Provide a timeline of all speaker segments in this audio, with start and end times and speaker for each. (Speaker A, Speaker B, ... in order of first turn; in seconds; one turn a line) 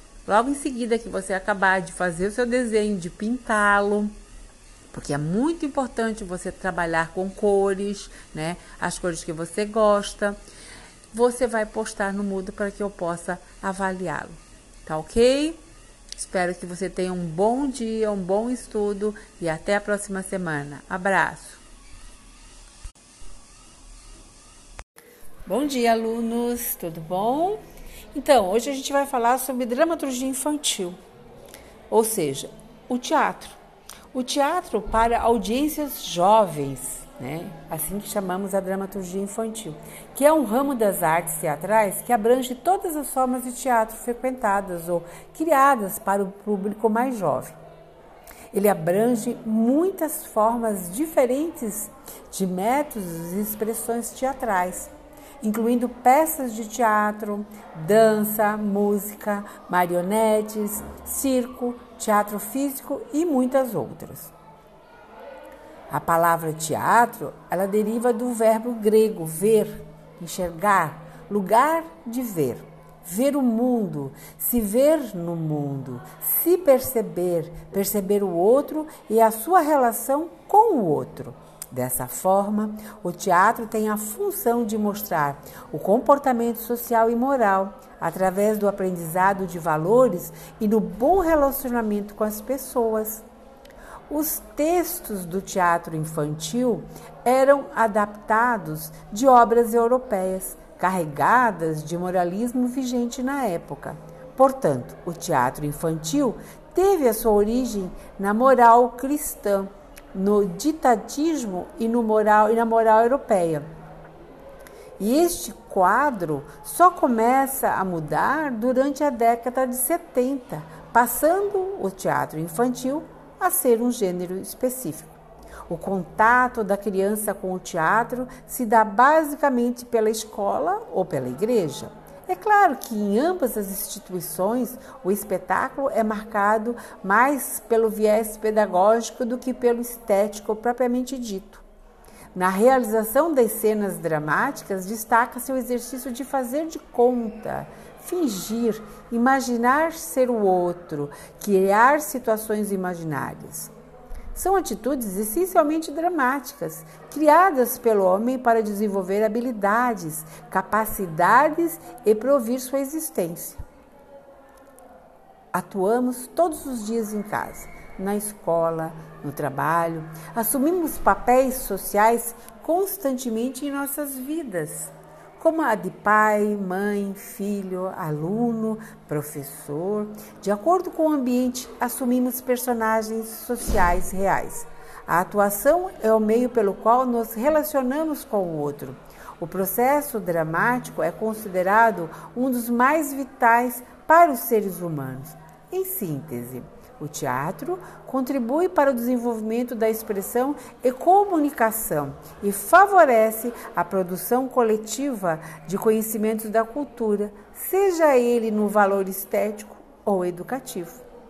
Speaker A: 0.2-4.1
Speaker A: 4.9-10.4
Speaker A: 11.1-15.6
Speaker A: 16.2-21.6
Speaker A: 25.4-27.6
Speaker A: 28.1-31.0
Speaker A: 31.9-33.6
Speaker A: 34.1-47.5
Speaker A: 48.5-64.3
Speaker A: 65.9-93.2
Speaker A: 94.1-113.7
Speaker A: 115.0-125.1
Speaker A: 125.7-141.6
Speaker A: 142.3-153.7
Speaker A: 154.3-163.6
Speaker A: 165.5-211.0